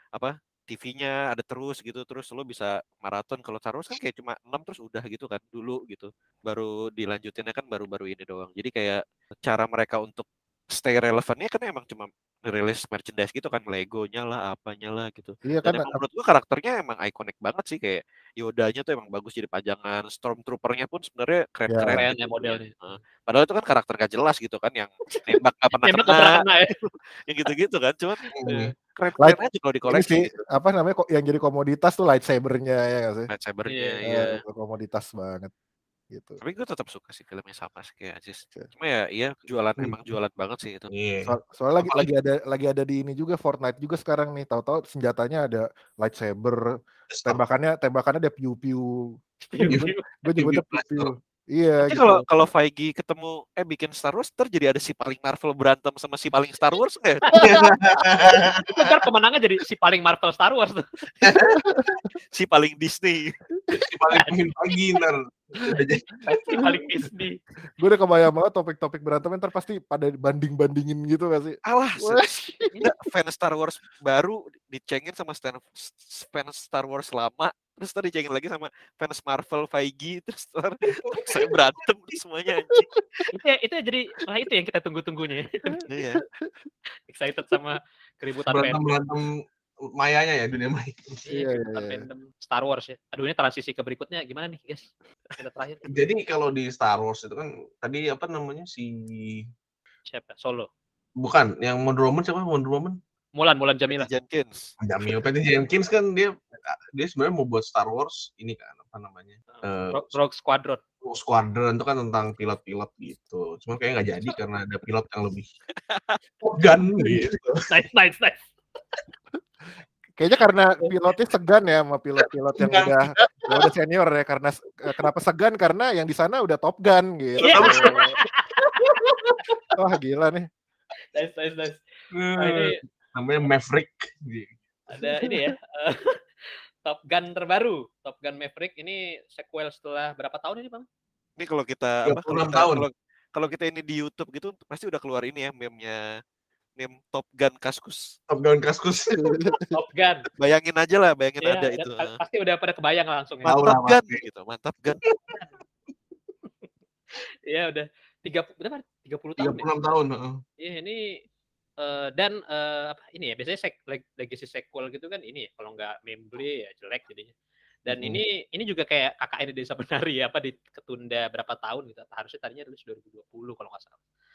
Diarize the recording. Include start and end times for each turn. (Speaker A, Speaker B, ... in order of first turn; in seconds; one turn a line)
Speaker A: 0.1-28.3
Speaker B: 15.4-15.9
Speaker B: 21.7-22.0
Speaker C: 21.8-22.7
Speaker C: 25.8-26.7
Speaker D: 28.3-28.7
Speaker C: 28.4-28.7
Speaker A: 28.9-30.4
Speaker B: 29.2-33.3
Speaker A: 33.3-34.4
Speaker C: 33.7-34.0
Speaker B: 34.0-35.5
Speaker B: 36.1-36.4
Speaker A: 36.4-40.9
Speaker D: 40.9-42.1
Speaker B: 41.2-46.6
Speaker D: 47.1-47.4
Speaker B: 47.2-48.9
Speaker C: 49.5-50.0
Speaker B: 49.6-52.2
Speaker D: 49.7-51.1
Speaker A: 51.8-57.4
Speaker D: 57.3-59.0
Speaker C: 58.7-60.9
Speaker D: 61.2-61.6
Speaker B: 61.7-61.9
Speaker A: 62.3-63.3
Speaker D: 63.8-66.2
Speaker C: 66.2-67.4
Speaker B: 67.8-72.9
Speaker A: 71.7-82.9
Speaker D: 81.0-81.4
Speaker C: 83.3-85.7
Speaker A: 85.9-86.2
Speaker C: 87.1-89.0
Speaker D: 88.5-89.4
Speaker D: 90.0-91.1
Speaker C: 91.2-95.9
Speaker B: 91.3-92.0
Speaker D: 95.8-99.5
Speaker C: 100.1-100.7
Speaker D: 101.2-103.0
Speaker C: 103.3-104.1
Speaker A: 103.9-104.7
Speaker D: 104.8-110.1
Speaker C: 109.5-110.8
Speaker D: 111.0-115.5
Speaker A: 115.8-116.2
Speaker D: 116.4-117.5
Speaker C: 117.7-118.5
Speaker B: 120.2-128.1
Speaker D: 122.6-123.0
Speaker C: 127.4-128.9
Speaker D: 127.4-128.1
Speaker D: 128.8-129.5
Speaker B: 129.8-130.5
Speaker C: 131.1-131.8
Speaker D: 132.1-134.6
Speaker C: 132.3-132.8
Speaker C: 134.9-136.2
Speaker C: 136.8-140.8
Speaker A: 141.4-146.0
Speaker D: 142.1-142.8
Speaker A: 146.8-148.0
Speaker D: 148.3-149.5
Speaker C: 149.7-150.3
Speaker A: 150.4-152.1
Speaker C: 151.4-153.6
Speaker D: 153.4-154.2
Speaker A: 153.5-155.0
Speaker D: 155.0-155.4
Speaker C: 157.5-159.7
Speaker D: 159.4-160.4
Speaker C: 160.6-161.2
Speaker C: 161.8-167.3
Speaker C: 167.8-174.0
Speaker D: 167.9-168.2